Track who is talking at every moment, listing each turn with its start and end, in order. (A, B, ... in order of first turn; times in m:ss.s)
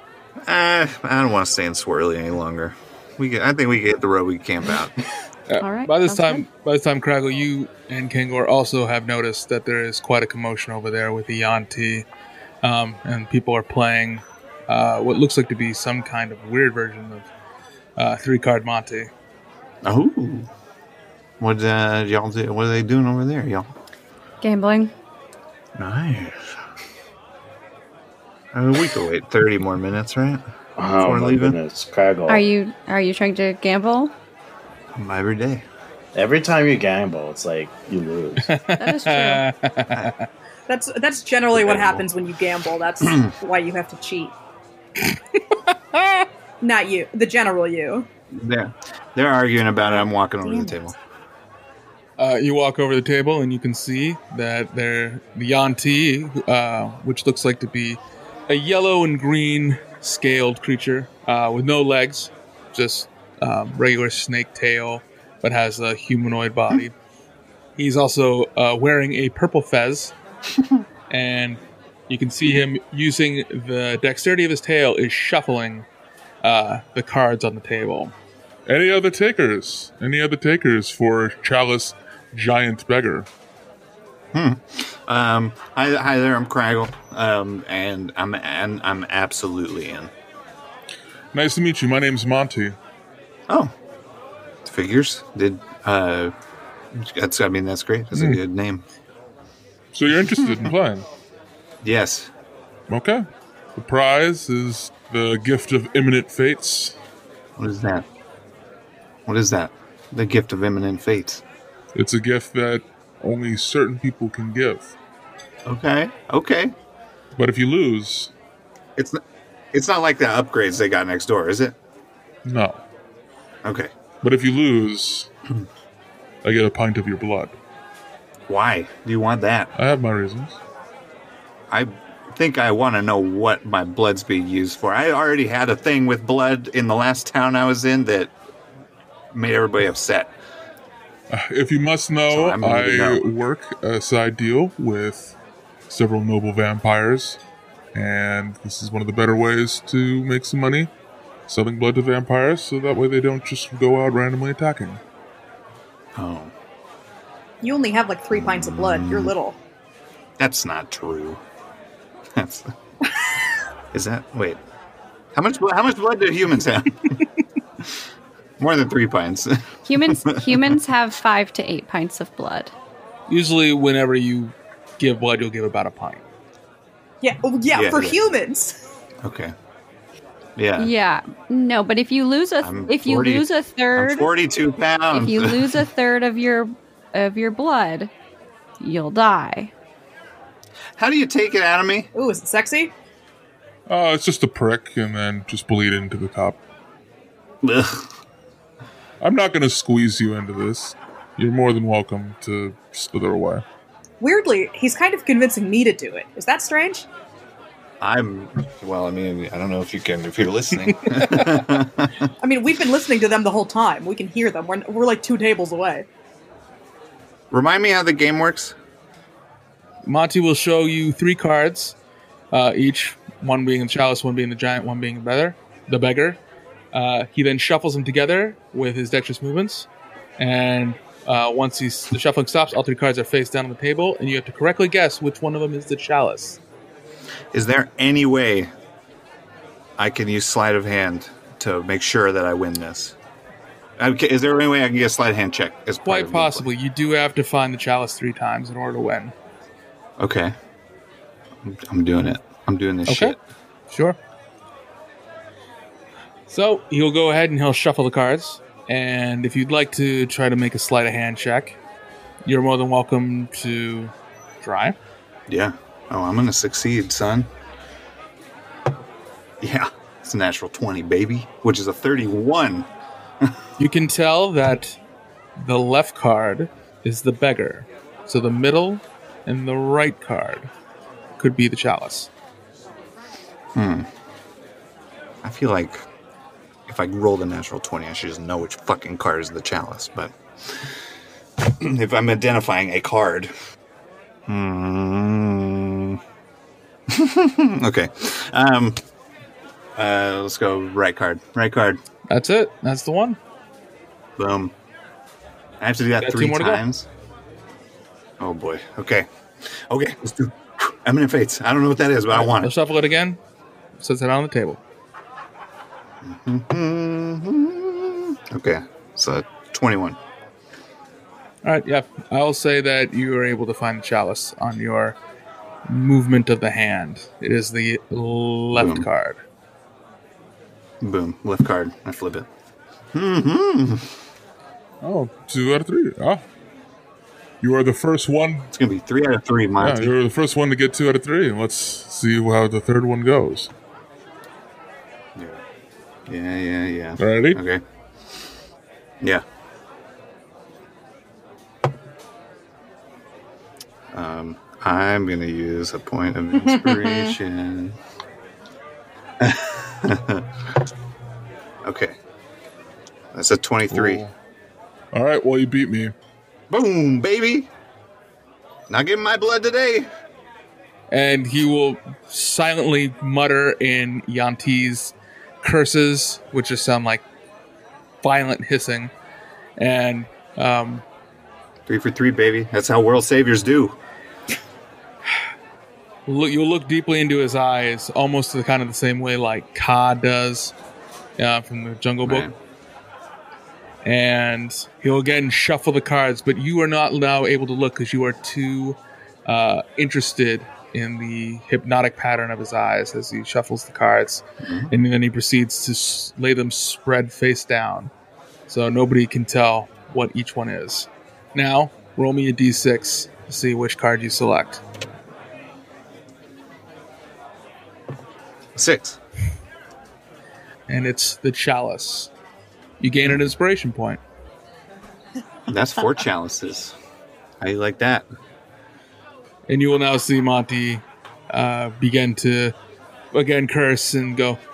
0:00.4-0:04.9 A
0:05.5-0:12.1 B
0:05.6-0:06.5 C
0:12.6-0:17.3 B
0:18.0-0:19.1 B
0:19.8-0:20.5 A
0:21.4-0:23.7 A
0:24.4-0:24.9 C
0:25.8-0:26.3 A
0:28.5-0:30.4 A
0:30.8-0:32.4 D
0:31.0-0:31.6 A
0:32.3-0:34.1 C
0:35.0-0:35.6 A
0:36.1-0:38.5 D
0:38.5-0:40.2 B
0:38.8-0:39.4 C
0:40.7-0:44.4 E
0:41.6-0:42.0 A
0:45.0-0:46.3 B
0:46.6-0:48.1 E
0:48.3-0:50.9 A
0:50.4-0:50.7 E
0:52.2-1:06.9 B
1:07.8-1:10.1 B
1:11.1-1:15.9 B
1:16.4-1:18.1 B
1:18.7-1:23.3 F
1:24.3-1:30.1 A
1:31.3-1:32.8 F
1:34.6-1:36.3 A
1:36.9-1:38.8 A
1:38.2-1:38.4 F
1:39.9-1:41.1 F
1:40.3-1:40.8 A
1:41.8-1:42.3 A
1:42.9-1:43.2 F
1:43.8-1:47.0 F
1:47.6-1:48.0 A
1:49.3-1:51.4 A
1:52.0-1:54.9 F
1:55.6-1:56.7 A
1:57.4-1:58.3 F
1:59.0-1:59.2 A
1:59.7-2:01.8 A
2:02.4-2:02.8 F
2:03.6-2:04.0 A
2:04.2-2:05.3 F
2:06.4-2:07.6 F
2:08.5-2:09.7 A
2:09.8-2:10.6 F
2:11.7-2:18.3 A
2:19.3-2:20.3 A
2:21.3-2:25.4 F
2:22.3-2:23.2 A
2:25.9-2:27.4 F
2:27.9-2:30.9 F
2:31.5-2:35.0 F
2:36.2-2:36.5 A
2:37.6-2:39.6 E
2:38.3-2:39.3 A
2:40.4-2:41.4 A
2:42.3-2:42.7 A
2:43.9-2:44.6 A
2:45.4-2:47.2 A
2:48.6-2:50.8 A
2:49.9-2:52.7 C
2:53.3-2:56.2 B
2:57.2-2:58.7 E
2:57.7-2:58.2 A
2:59.2-2:59.5 A
3:00.6-3:00.9 A
3:00.8-3:04.3 C
3:02.6-3:05.8 A
3:05.1-3:08.1 C
3:08.8-3:09.7 C
3:11.0-3:12.1 A
3:12.1-3:12.9 E
3:13.9-3:16.6 F
3:17.6-3:18.1 A
3:19.2-3:23.6 F
3:24.2-3:27.1 E
3:28.0-3:32.1 A
3:31.1-3:31.6 B
3:32.4-3:36.1 E
3:37.5-3:38.8 A
3:40.0-3:42.0 B
3:42.5-3:46.4 B
3:46.9-3:56.6 B
3:57.5-3:58.7 A
4:00.0-4:03.2 A
4:04.0-4:06.7 A
4:06.0-4:09.3 B
4:10.2-4:10.5 A
4:11.6-4:13.4 A
4:13.1-4:13.4 B
4:13.9-4:14.2 B
4:16.5-4:21.8 B
4:22.4-4:25.0 B
4:25.5-4:27.5 A
4:29.6-4:32.9 A
4:33.8-4:35.0 B
4:35.6-4:40.7 B
4:41.4-4:42.3 B
4:43.8-4:44.1 A
4:45.4-4:46.1 A
4:46.9-4:50.9 A
4:51.6-4:53.5 A
4:54.5-4:56.2 A
4:57.1-4:59.0 A
5:00.0-5:02.0 A
5:02.3-5:03.4 B
5:04.4-5:04.7 A
5:05.8-5:07.1 A
5:06.2-5:06.8 B
5:08.4-5:12.7 A
5:12.3-5:13.4 B
5:14.0-5:14.8 B
5:16.2-5:20.2 A
5:21.6-5:25.2 B
5:25.9-5:29.4 B
5:28.7-5:29.1 A
5:31.0-5:32.5 A
5:33.1-5:34.1 A
5:35.0-5:36.4 F
5:37.6-5:38.7 F
5:38.7-5:40.2 A
5:39.8-5:43.7 F
5:45.4-5:45.6 A
5:46.3-5:47.8 A
5:47.2-5:47.6 F
5:54.1-5:58.0 A
5:56.8-5:57.3 E
5:59.4-6:00.5 A
6:01.8-6:02.2 A
6:03.3-6:04.2 A
6:03.9-6:04.3 F
6:05.1-6:06.1 F
6:06.7-6:07.7 A
6:08.9-6:10.1 A
6:11.1-6:17.2 B
6:18.2-6:19.1 B
6:19.8-6:21.0 B
6:21.9-6:24.0 A
6:26.3-6:30.7 B
6:31.4-6:32.5 B
6:32.2-6:32.5 A
6:34.0-6:48.1 B
6:44.6-6:44.9 A
6:48.7-6:54.8 B
6:58.8-6:59.2 A
7:00.9-7:02.3 B
7:03.0-7:04.2 B
7:05.7-7:07.0 A
7:07.6-7:08.2 A
7:09.7-7:12.8 B
7:13.3-7:14.6 B